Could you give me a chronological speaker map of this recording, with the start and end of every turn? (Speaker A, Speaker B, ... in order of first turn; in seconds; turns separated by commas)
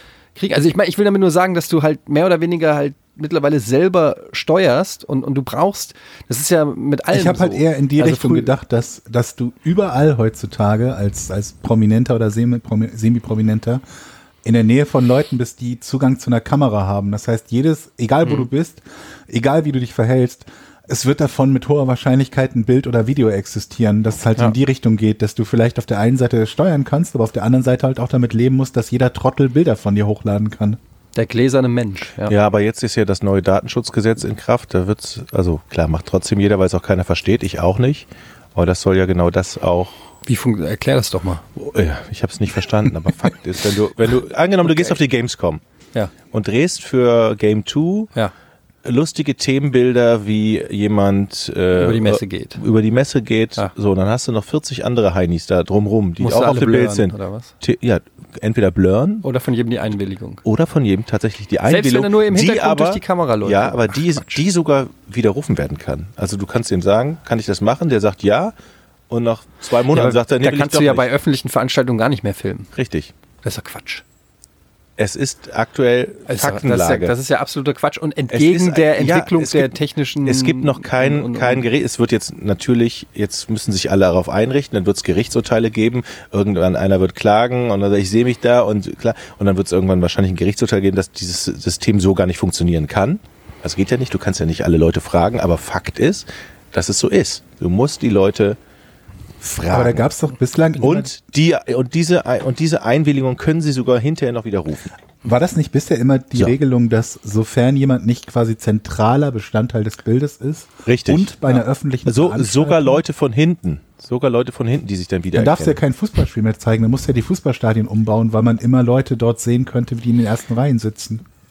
Speaker A: 0.3-8.5, Speaker B: 7.1-13.8, Speaker B: 14.4-30.8, Speaker A: 31.1-32.3, Speaker C: 32.3-40.0, Speaker A: 40.2-41.5, Speaker C: 41.6-45.6, Speaker A: 44.6-45.0, Speaker C: 46.3-48.1, Speaker C: 48.8-59.2, Speaker A: 51.8-52.6, Speaker A: 56.2-57.5, Speaker A: 59.2-60.4, Speaker C: 60.4-68.5, Speaker A: 61.7-64.4, Speaker C: 69.1-71.1, Speaker A: 69.9-72.7, Speaker C: 72.8-73.1, Speaker A: 73.4-74.0, Speaker C: 75.0-77.1, Speaker A: 76.3-81.7, Speaker C: 78.3-79.7, Speaker C: 80.2-98.6, Speaker C: 99.4-100.1, Speaker B: 99.7-101.1, Speaker C: 100.8-104.9, Speaker B: 105.2-113.0, Speaker C: 110.8-111.4, Speaker C: 112.1-115.8, Speaker B: 115.3-121.2